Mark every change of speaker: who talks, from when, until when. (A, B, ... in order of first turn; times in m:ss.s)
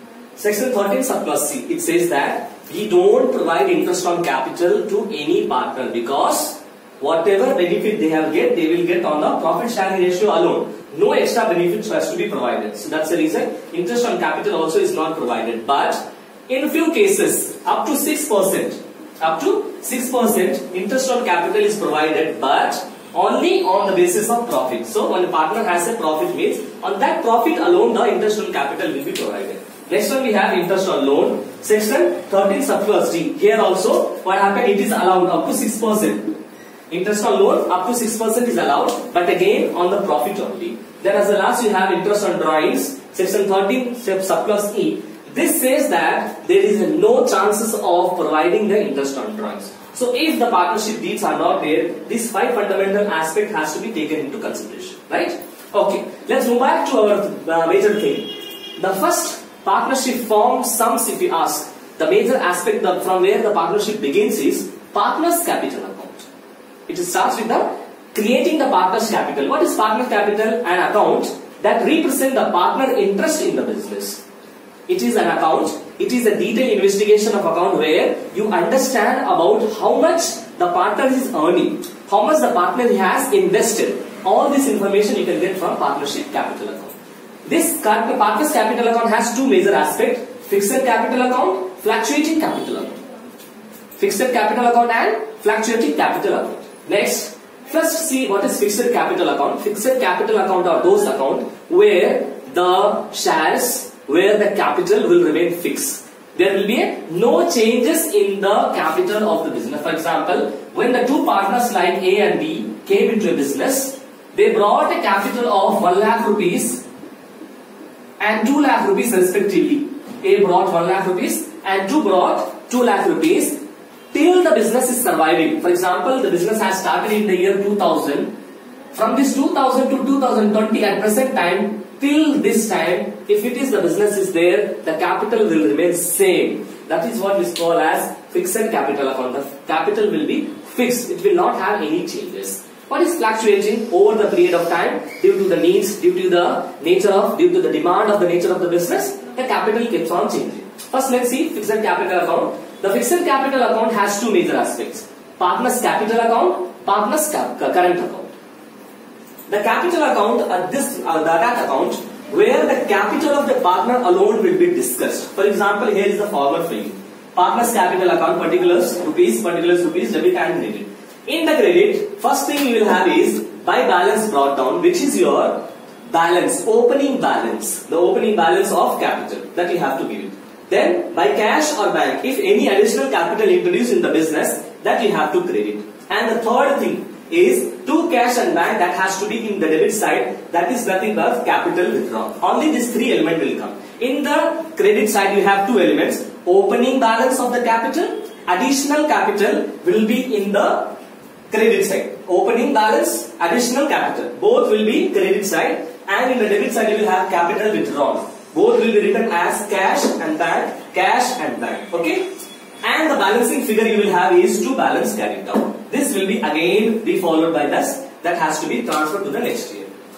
0:00.4-0:36.3 A
0:36.9-1:06.3 A
1:06.9-1:14.2 A
1:14.9-1:33.0 A
1:34.0-1:56.8 A
1:58.2-2:03.6 A
2:04.1-2:08.3 A
2:08.9-2:38.3 A
2:39.5-3:21.0 A
3:21.5-3:32.2 A
3:32.8-3:39.9 A